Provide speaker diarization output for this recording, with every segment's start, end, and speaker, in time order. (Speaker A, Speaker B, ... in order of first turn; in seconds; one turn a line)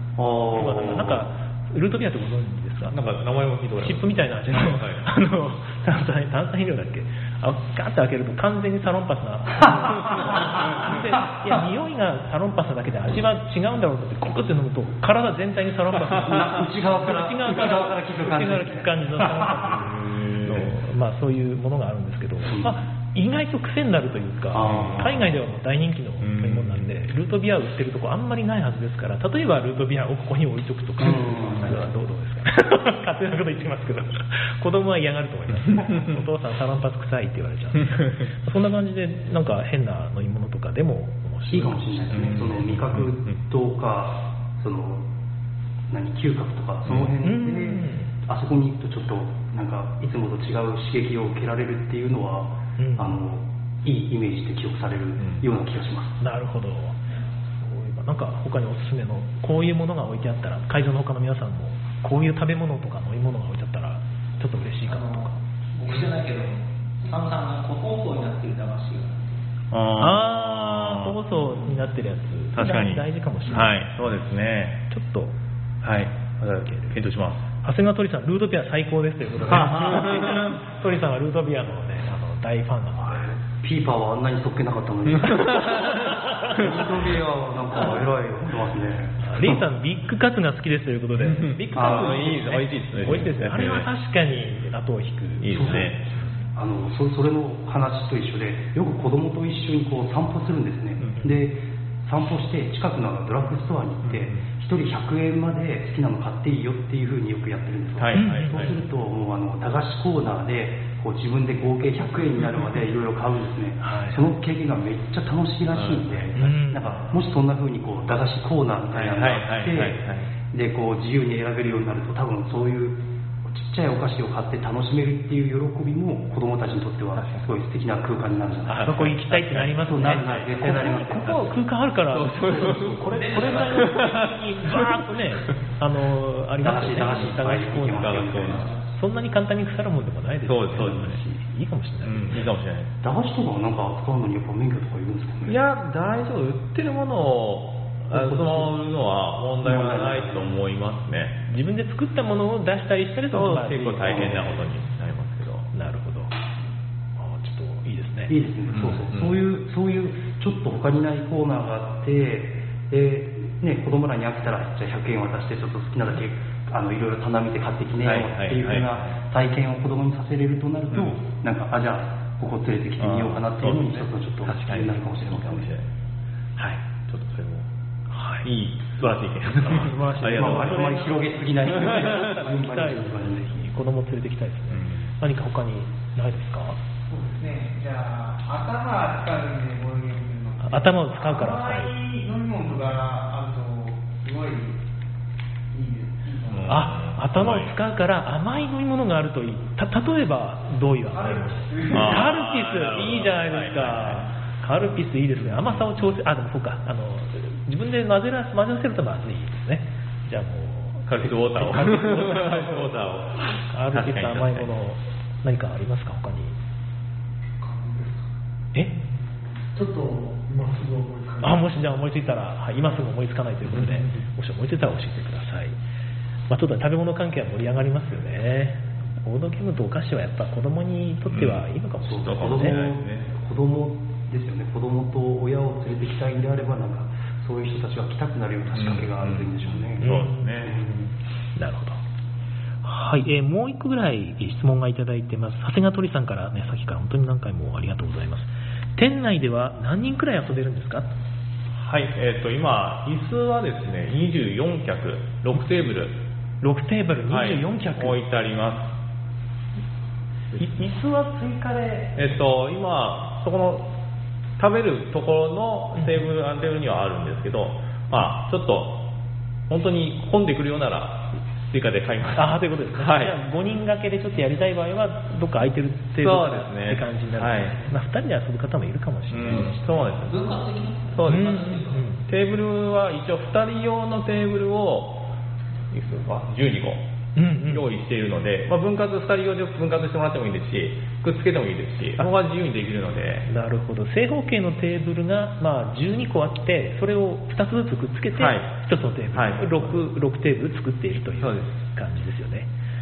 Speaker A: 0.2-1.2
Speaker B: 0.5-3.0
Speaker C: 2.9-5.1
Speaker B: 3.8-42.7
Speaker A: 16.2-18.9
Speaker C: 19.9-20.7
Speaker A: 22.4-22.8
Speaker A: 24.5-25.1
Speaker C: 24.6-25.4
Speaker C: 26.2-26.9
Speaker A: 31.0-31.9
Speaker A: 41.5-45.1
Speaker C: 42.1-43.4
Speaker A: 45.9-56.2
Speaker C: 46.9-47.1
Speaker B: 47.2-48.1
Speaker B: 52.8-53.1
Speaker B: 56.2-57.0
Speaker B: 57.6-65.4
Speaker D: 64.9-69.4
Speaker C: 69.7-71.2
Speaker B: 70.0-73.9
Speaker C: 72.5-74.9
Speaker B: 74.9-75.3
Speaker C: 75.8-77.5
Speaker B: 76.4-76.9
Speaker B: 77.6-83.3
Speaker C: 79.5-80.5
Speaker A: 83.3-85.9
Speaker C: 85.3-85.9
Speaker A: 86.5-89.6
Speaker B: 89.2-95.9
Speaker C: 91.2-93.9
Speaker A: 91.7-92.2
Speaker C: 95.4-96.0
Speaker A: 95.5-95.9
Speaker A: 96.5-129.0
Speaker C: 101.0-101.3
Speaker C: 104.0-104.4
Speaker C: 108.0-108.8
Speaker B: 108.1-108.8
Speaker B: 113.8-114.3
Speaker C: 115.8-116.3
Speaker B: 116.4-117.0
Speaker C: 118.9-120.3
Speaker C: 127.2-127.5
Speaker C: 128.7-129.8
Speaker B: 128.7-142.5
Speaker A: 129.8-131.5
Speaker C: 132.1-135.0
Speaker D: 133.0-134.0
Speaker A: 136.6-138.8
Speaker C: 137.9-138.7
Speaker C: 140.5-141.2
Speaker C: 142.0-143.0
Speaker A: 143.0-145.6
Speaker C: 145.5-151.4
Speaker A: 148.1-148.7
Speaker A: 149.6-150.5
Speaker B: 151.5-154.3
Speaker C: 153.3-155.7
Speaker A: 153.9-154.5
Speaker B: 155.7-156.3
Speaker B: 157.2-158.3
Speaker A: 158.3-175.8
Speaker C: 158.7-159.4
Speaker C: 168.0-169.2
Speaker C: 170.9-171.2
Speaker C: 173.0-175.9
Speaker C: 177.1-177.7
Speaker B: 178.1-178.5
Speaker C: 178.4-180.8
Speaker B: 179.6-186.8
Speaker A: 180.2-183.6
Speaker C: 181.7-182.4
Speaker C: 184.7-185.1
Speaker D: 187.1-194.8
Speaker B: 190.6-191.9
Speaker D: 195.7-196.9
Speaker C: 196.5-197.8
Speaker B: 196.7-212.9
Speaker D: 201.1-202.3
Speaker C: 201.9-204.3
Speaker C: 205.4-206.0
Speaker C: 211.1-214.7
Speaker B: 213.7-216.5
Speaker E: 217.6-218.3
Speaker E: 219.7-221.7
Speaker B: 221.4-225.8
Speaker C: 223.7-224.1
Speaker B: 226.5-232.8
Speaker C: 231.3-233.3
Speaker A: 232.1-241.1
Speaker C: 238.8-240.7
Speaker B: 240.0-240.7
Speaker B: 241.6-242.0
Speaker B: 242.8-251.2
Speaker C: 251.8-256.2
Speaker B: 256.6-258.2
Speaker C: 257.3-258.9
Speaker B: 260.6-262.1
Speaker C: 262.2-263.9
Speaker C: 264.6-269.1
Speaker B: 266.0-266.3
Speaker C: 269.7-273.4
Speaker B: 272.4-280.2
Speaker C: 276.2-277.8
Speaker C: 279.3-280.6
Speaker D: 280.2-282.0
Speaker C: 281.1-285.3
Speaker B: 281.3-282.2
Speaker C: 285.9-287.0
Speaker B: 287.4-287.9
Speaker C: 287.7-293.5
Speaker B: 293.5-302.7
Speaker C: 298.4-298.7
Speaker C: 299.3-300.1
Speaker C: 301.4-301.7